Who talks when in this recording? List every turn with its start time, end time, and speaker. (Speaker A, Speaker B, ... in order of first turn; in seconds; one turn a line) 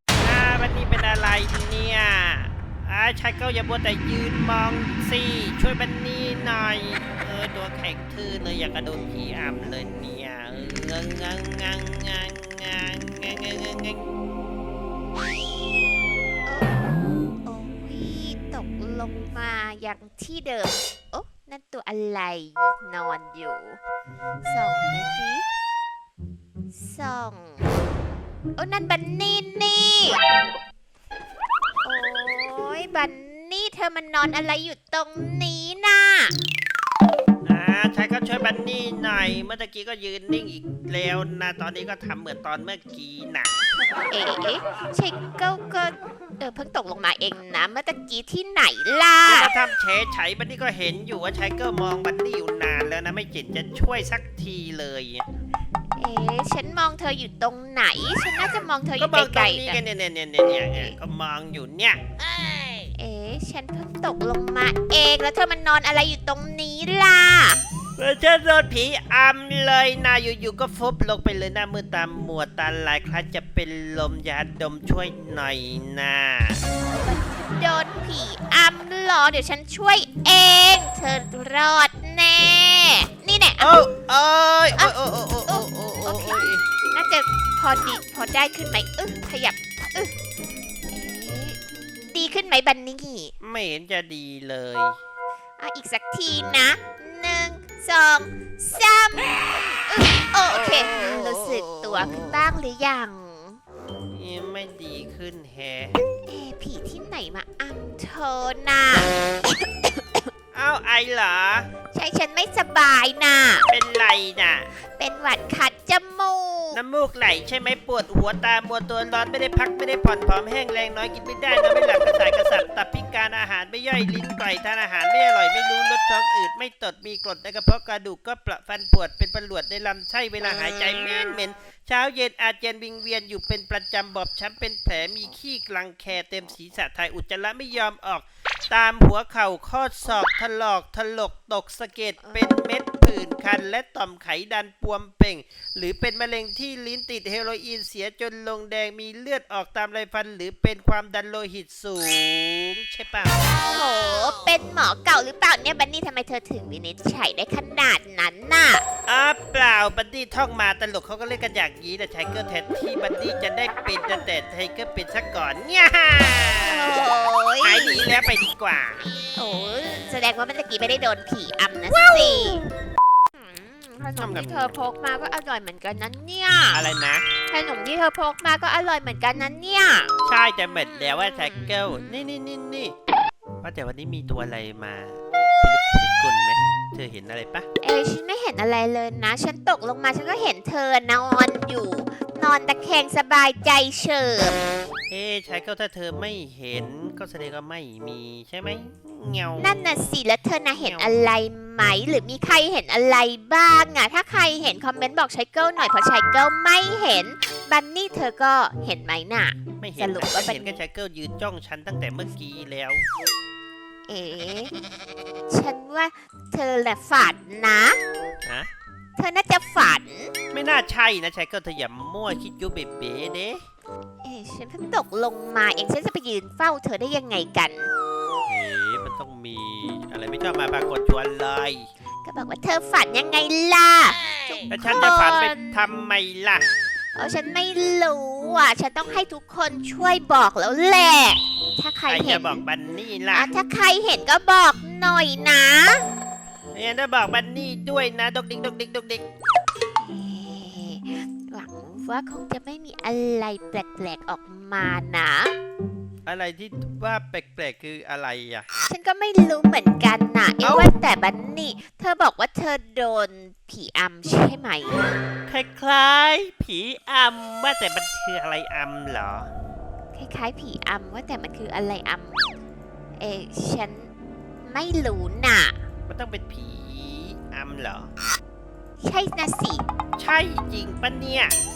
Speaker A: 0.2-14.1
Speaker B: 16.4-23.8
Speaker B: 24.4-25.4
Speaker B: 26.7-27.7
Speaker B: 28.6-30.2
Speaker B: 31.8-36.3
Speaker A: 37.5-43.5
Speaker B: 44.1-49.5
Speaker A: 49.3-55.2
Speaker B: 56.0-59.8
Speaker A: 59.0-62.0
Speaker B: 60.6-61.0
Speaker B: 63.0-67.6
Speaker A: 68.0-76.6
Speaker B: 76.8-83.8
Speaker A: 83.6-86.7
Speaker B: 84.8-90.1
Speaker B: 90.9-91.6
Speaker B: 92.1-93.3
Speaker A: 93.4-95.0
Speaker B: 95.6-103.6
Speaker A: 104.1-106.0
Speaker B: 106.2-110.2
Speaker A: 110.5-111.7
Speaker B: 111.9-113.7
Speaker A: 113.7-114.7
Speaker B: 114.8-116.8
Speaker A: 116.7-153.4
Speaker B: 153.7-158.8
Speaker A: 159.1-166.9
Speaker B: 166.6-168.1
Speaker A: 167.6-169.1
Speaker B: 169.3-172.6
Speaker A: 171.9-172.7
Speaker B: 173.3-176.9
Speaker A: 174.2-174.8
Speaker A: 176.7-177.2
Speaker B: 177.5-180.1
Speaker A: 180.2-182.9
Speaker A: 183.6-187.7
Speaker B: 187.8-194.6
Speaker A: 195.1-199.9
Speaker B: 199.6-210.8
Speaker A: 200.8-201.1
Speaker A: 209.8-213.0
Speaker B: 214.1-214.7
Speaker B: 215.5-218.0
Speaker A: 218.4-218.7
Speaker B: 219.2-220.3
Speaker A: 220.5-223.6
Speaker B: 224.2-227.9
Speaker A: 228.5-231.9
Speaker B: 232.2-235.8
Speaker A: 234.7-236.7
Speaker B: 237.1-242.6
Speaker A: 242.1-243.5
Speaker B: 243.3-246.0
Speaker A: 246.7-249.2
Speaker B: 250.0-255.5
Speaker A: 256.2-258.7
Speaker B: 258.8-265.1
Speaker A: 260.6-260.9
Speaker A: 265.5-269.5
Speaker B: 270.1-272.5
Speaker B: 273.2-274.1
Speaker B: 274.6-275.8
Speaker A: 276.1-278.1
Speaker B: 279.0-279.9
Speaker A: 280.2-281.6